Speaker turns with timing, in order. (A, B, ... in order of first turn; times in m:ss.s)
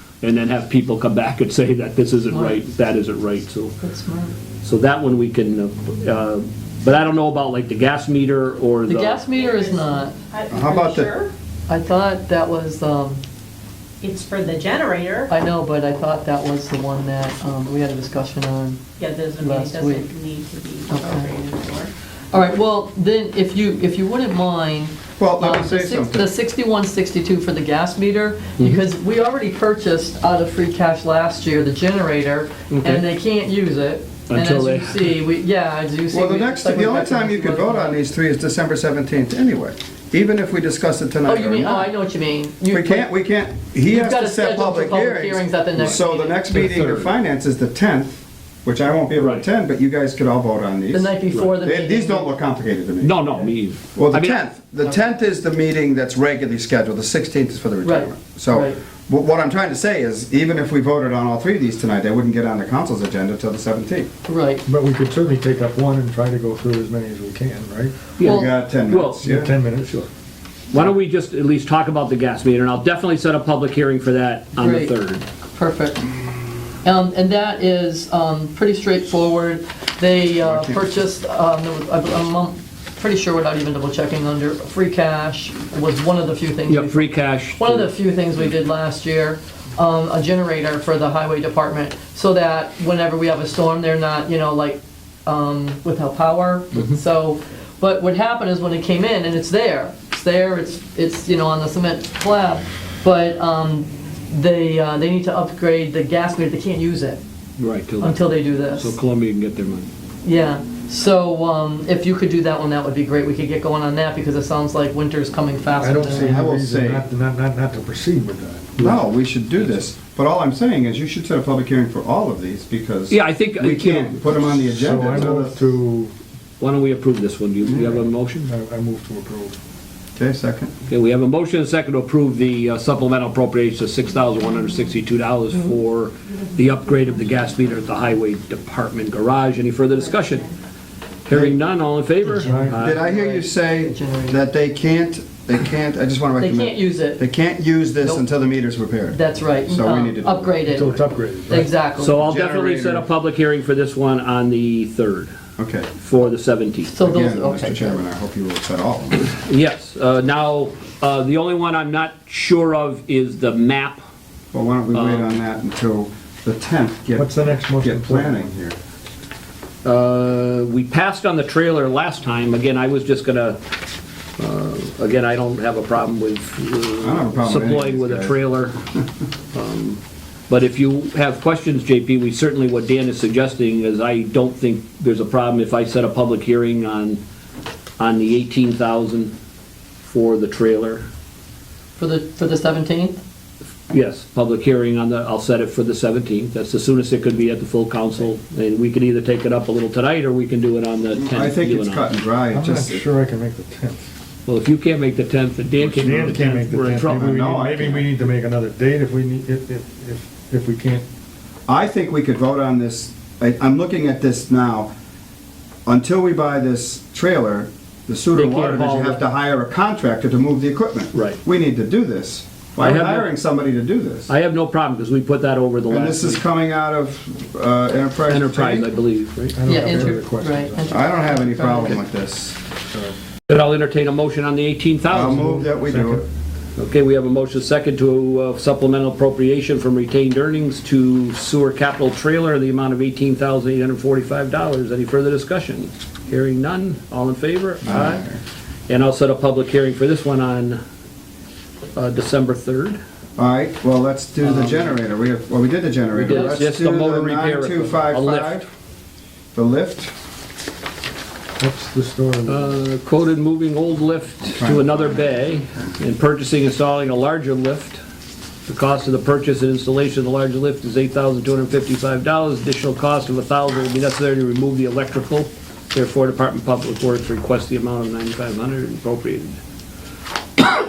0:00.2-0:03.7 A
0:02.3-0:02.6 B
0:03.8-0:04.3 B
0:04.6-0:09.2 A
0:08.8-0:10.1 B
0:09.4-0:11.3 C
0:10.5-0:11.1 D
0:11.7-0:13.2 B
0:14.0-0:15.3 C
0:15.3-0:18.8 B
0:19.0-0:21.9 C
0:19.4-0:20.1 B
0:20.9-0:21.3 B
0:22.3-0:38.0 B
0:25.2-0:26.3 D
0:32.7-0:33.0 A
0:34.3-0:35.2 A
0:36.1-0:41.9 D
0:41.2-0:43.1 B
0:42.7-0:53.4 D
0:43.9-0:46.5 B
0:45.8-0:47.1 A
0:49.1-0:49.4 A
0:50.9-0:52.3 B
0:53.0-0:54.4 A
0:54.0-1:04.1 D
0:57.8-0:58.8 B
1:04.3-1:04.6 B
1:04.7-1:08.0 E
1:08.2-1:09.2 A
1:08.2-1:09.5 D
1:08.2-1:08.5 B
1:09.2-1:10.1 E
1:10.7-1:15.2 A
1:14.6-1:14.9 B
1:15.5-1:16.0 B
1:16.8-1:47.2 B
1:20.4-1:21.0 D
1:26.7-1:27.9 A
1:47.6-1:49.9 A
1:48.0-1:48.9 B
1:50.2-1:56.4 B
1:55.8-1:59.0 E
1:56.1-1:57.0 D
1:58.8-2:05.6 D
2:03.1-2:04.2 A
2:04.4-2:06.1 E
2:06.6-2:08.5 A
2:08.4-2:09.6 E
2:10.2-2:10.7 D
2:10.9-2:20.5 A
2:21.3-2:23.0 A
2:21.3-2:21.6 D
2:22.4-2:22.8 E
2:22.4-2:24.5 B
2:22.7-2:30.5 D
2:26.4-2:27.2 B
2:29.1-2:32.2 B
2:30.6-2:31.7 E
2:32.0-2:35.3 A
2:32.1-2:33.0 D
2:35.6-2:35.9 D
2:36.0-2:36.9 A
2:36.9-2:38.0 B
2:37.0-2:39.2 D
2:39.2-2:44.0 A
2:44.5-2:48.8 D
2:44.9-2:45.3 A
2:47.1-2:48.5 E
2:49.8-2:53.6 A
2:54.4-2:58.7 A
2:57.0-2:58.4 D
2:59.5-3:07.2 A
3:08.0-3:09.3 A
3:10.0-3:11.1 A
3:12.0-3:13.2 B
3:13.9-3:22.1 A
3:21.2-3:23.0 D
3:22.5-3:24.1 E
3:24.4-3:27.3 A
3:25.8-3:31.0 E
3:27.0-3:28.1 D
3:31.7-3:34.9 D
3:35.8-3:44.3 D
3:38.3-3:39.2 A
3:41.1-3:41.4 A
3:42.8-3:43.3 A
3:44.3-3:46.4 A
3:45.9-3:48.9 D
3:48.3-3:50.0 A
3:49.5-3:51.1 E
3:49.6-3:52.0 B
3:50.9-3:52.6 D
3:52.9-3:53.2 E
3:53.5-3:55.5 A
3:55.1-3:56.2 D
3:55.2-3:56.2 E
3:56.8-4:08.2 A
4:07.8-4:08.4 D
4:08.9-4:10.8 A
4:11.9-4:13.0 A
4:13.4-4:18.6 D
4:14.4-4:15.0 A
4:16.1-4:18.6 A
4:19.5-4:20.1 D
4:21.6-4:22.7 E
4:22.5-4:28.0 A
4:24.4-4:25.8 D
4:28.7-4:39.6 A